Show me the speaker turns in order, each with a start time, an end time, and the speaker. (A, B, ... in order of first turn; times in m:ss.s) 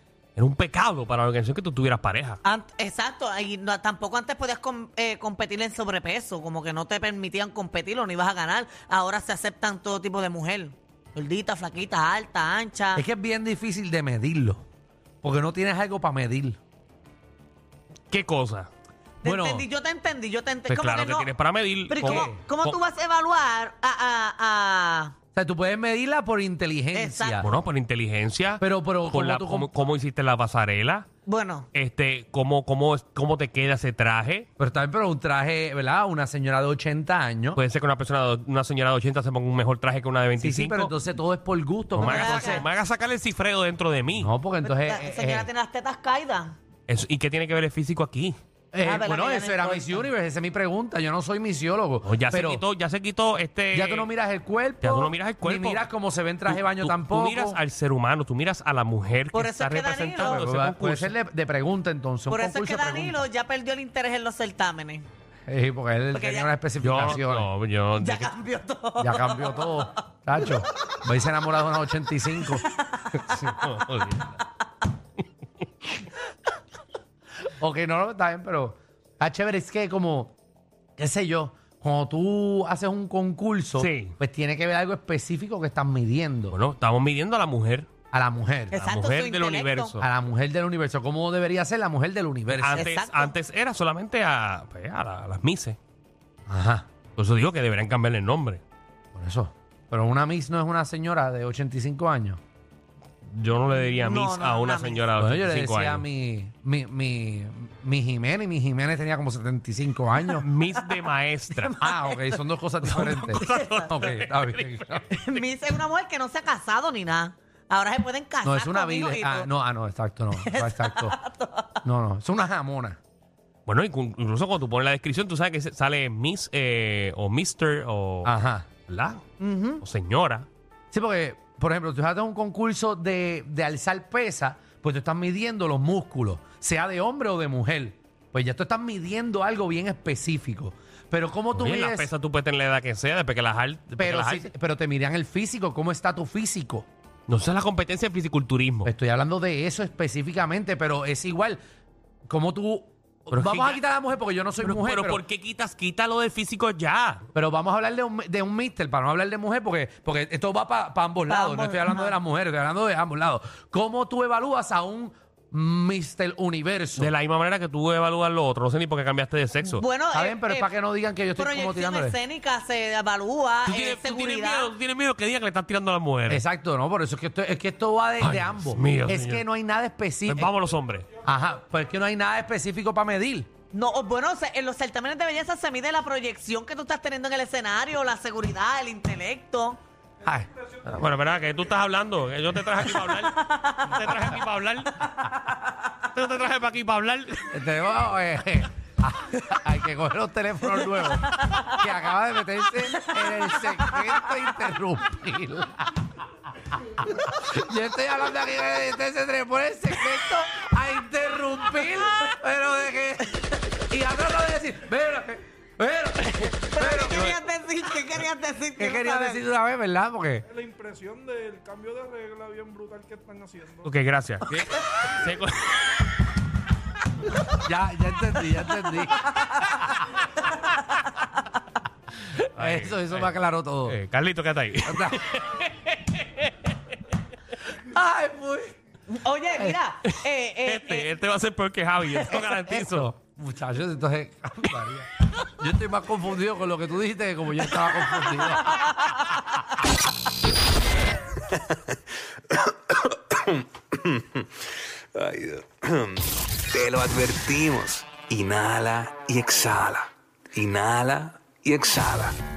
0:00.4-0:02.4 A
0:02.4-0:13.0 B
0:12.9-0:14.6 C
0:15.2-0:16.6 C
0:18.1-0:18.7 A
0:19.2-0:21.3 B
0:19.2-0:19.7 C
0:20.7-0:22.8 A
0:21.9-0:25.1 B
0:22.0-0:22.4 C
0:25.3-0:27.5 C
0:26.9-0:27.5 B
0:27.4-0:31.0 A
0:28.6-0:29.8 C
0:31.2-0:31.7 B
0:31.7-0:34.5 A
0:34.6-0:37.6 C
0:37.6-0:40.9 A
0:40.4-0:42.7 C
0:41.9-0:44.3 A
0:42.0-0:42.6 B
0:44.1-0:45.5 C
0:44.6-0:46.6 B
0:46.9-0:48.4 A
0:48.7-0:52.6 C
0:48.8-0:50.0 B
0:52.0-0:54.1 A
0:53.7-0:57.6 C
0:54.8-0:55.8 A
0:56.5-1:01.1 A
0:59.3-1:00.4 B
1:00.1-1:03.2 C
1:02.3-1:05.0 B
1:05.5-1:07.5 C
1:06.1-1:06.5 B
1:06.8-1:08.3 A
1:08.0-1:09.9 B
1:09.0-1:12.6 C
1:12.5-1:13.2 B
1:13.1-1:14.4 A
1:17.6-1:20.3 C
1:21.0-1:26.6 C
1:23.8-1:24.1 A
1:26.5-1:27.9 A
1:28.1-1:28.8 C
1:28.7-1:30.0 B
1:28.8-1:30.0 A
1:30.0-1:32.8 C
1:32.5-1:35.8 A
1:32.7-1:33.3 B
1:36.5-1:36.9 C
1:37.2-1:38.6 A
1:39.1-1:42.4 C
1:43.2-1:46.0 A
1:43.7-1:45.0 B
1:45.2-1:50.4 C
1:50.4-1:51.8 A
1:50.8-1:52.4 B
1:51.8-1:55.1 C
1:52.8-1:55.4 A
1:53.3-1:53.9 B
1:55.1-1:59.5 B
1:58.4-2:01.2 C
2:00.4-2:01.8 B
2:01.8-2:03.0 C
2:03.6-2:08.3 A
2:08.2-2:08.7 C
2:08.9-2:09.2 A
2:09.4-2:09.8 B
2:09.8-2:10.5 A
2:10.9-2:22.1 C
2:21.5-2:24.5 A
2:24.0-2:26.9 C
2:27.3-2:28.9 A
2:28.8-2:31.6 C
2:32.3-2:35.2 C
2:33.3-2:33.8 A
2:34.6-2:37.2 A
2:37.3-2:47.1 C
2:41.3-2:42.2 B
2:47.0-2:49.8 A
2:49.6-2:50.7 B
2:50.1-2:52.2 C
2:51.4-2:54.7 B
2:53.6-2:56.4 A
2:56.3-3:00.5 C
2:58.2-2:59.4 A
3:00.3-3:01.1 A
3:01.2-3:03.5 C
3:03.7-3:09.8 B
3:10.2-3:10.5 C
3:10.8-3:15.1 A
3:13.3-3:14.0 B
3:16.1-3:17.5 A
3:17.5-3:26.2 C
3:23.0-3:24.0 B
3:26.8-3:37.3 C
3:36.7-3:39.4 B
3:38.8-3:40.4 C
3:40.5-3:43.8 D
3:43.8-3:45.9 A
3:44.5-3:45.1 C
3:47.4-3:49.5 C
3:52.5-3:53.3 A
3:52.6-3:54.0 C
3:53.8-3:56.7 A
3:54.8-3:55.2 C
3:57.8-3:58.7 C
3:59.1-4:01.1 B
4:00.1-4:03.1 A
4:02.2-4:08.9 C
4:12.5-4:14.6 E
4:15.1-4:22.4 E